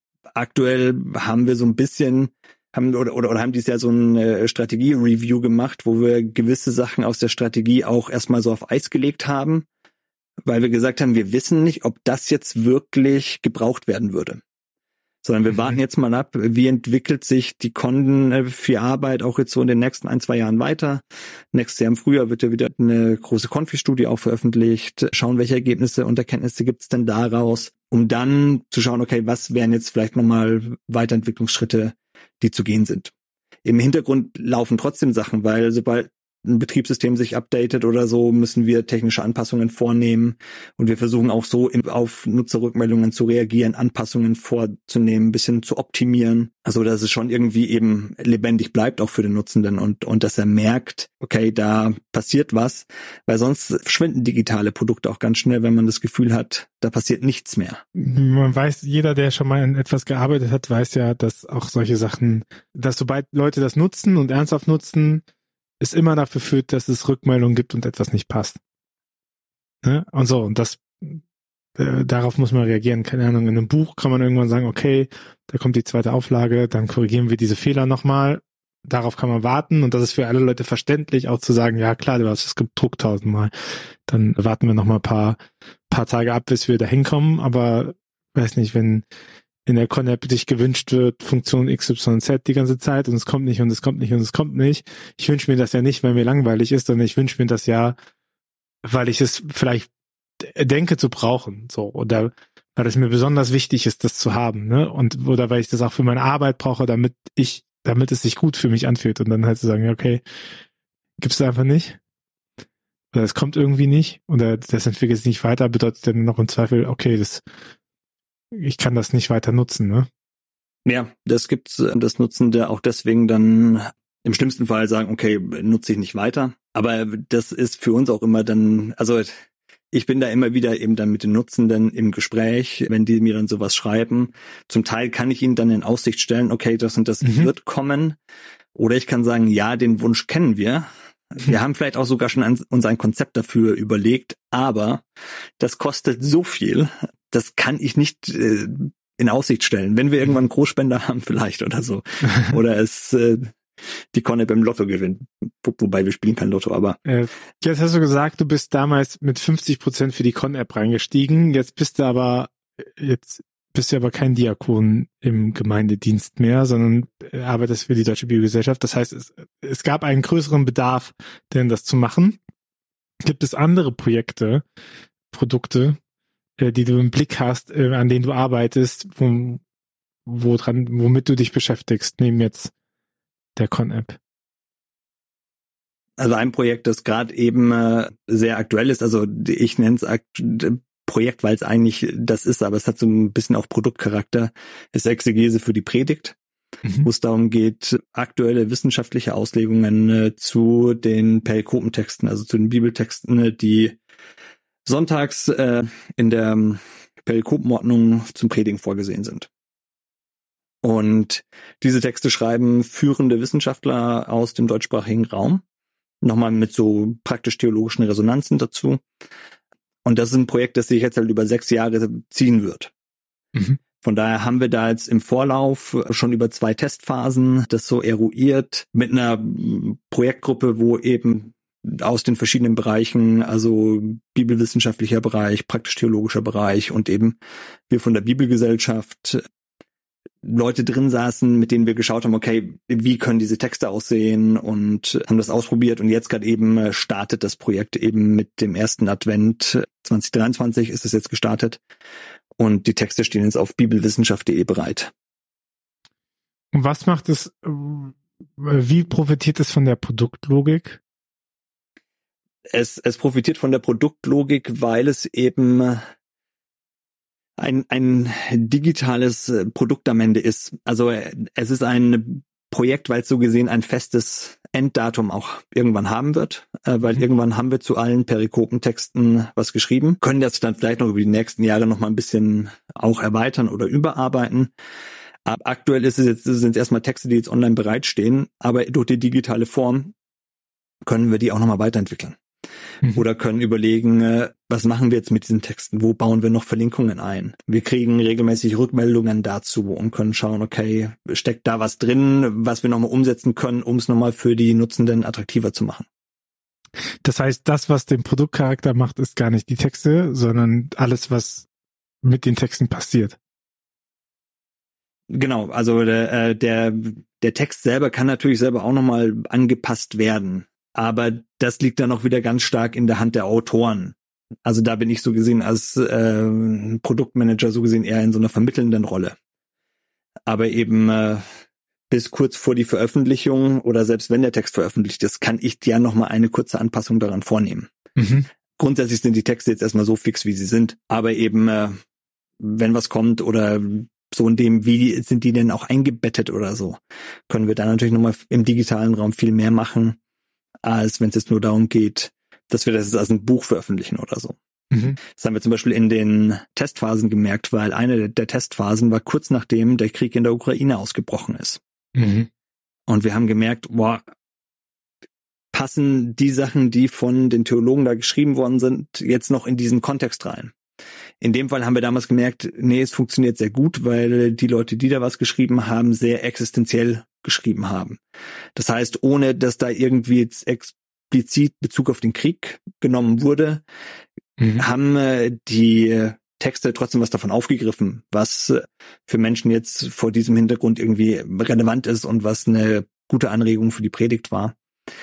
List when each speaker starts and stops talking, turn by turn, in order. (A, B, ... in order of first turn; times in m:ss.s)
0:00.3-0:09.7 A
0:10.4-0:14.4 A
0:15.2-0:33.1 A
0:33.6-0:57.8 A
0:58.0-1:05.2 B
1:05.8-1:08.6 B
1:09.8-1:11.2 B
1:11.8-1:23.5 B
1:24.1-1:29.0 B
1:29.6-1:38.0 B
1:38.8-1:39.9 B
1:40.4-1:50.2 B
1:51.2-1:52.0 B
1:53.1-1:57.4 B
1:58.5-2:00.1 B
2:00.8-2:09.3 A
2:09.9-2:18.2 A
2:17.2-2:17.5 B
2:18.7-2:25.0 A
2:25.6-2:33.6 A
2:34.1-2:37.0 A
2:37.0-2:52.4 B
2:53.2-2:54.6 B
2:55.3-2:56.0 B
2:56.6-2:59.6 B
3:00.2-3:02.7 B
3:03.6-3:04.2 B
3:06.2-3:16.4 A
3:17.0-3:24.0 A
3:24.8-3:29.5 A
3:30.8-3:35.6 A
3:36.2-3:39.0 A
3:40.0-3:42.9 A
3:43.5-3:43.8 B
3:44.0-3:57.4 A
3:57.9-3:59.4 A
4:00.4-4:11.8 A
4:12.6-4:15.1 A
4:16.7-4:21.0 B
4:22.7-4:26.0 A
4:27.6-4:44.7 A
4:45.4-4:50.1 A
4:51.0-4:52.4 A
4:53.1-5:06.0 A
5:07.2-5:11.7 B
5:12.2-5:13.4 B
5:15.3-5:29.4 A
5:30.5-5:31.5 A
5:32.1-5:37.9 A
5:38.2-5:38.4 B
5:38.8-5:42.0 A
5:42.6-5:50.2 A
5:50.8-5:54.6 A
5:54.9-5:55.2 B
5:55.2-6:01.8 A
6:02.1-6:02.5 B
6:03.1-6:04.2 A
6:05.7-6:10.7 A
6:11.4-6:18.2 A
6:18.8-6:23.8 A
6:24.6-6:24.8 B
6:24.8-6:34.7 A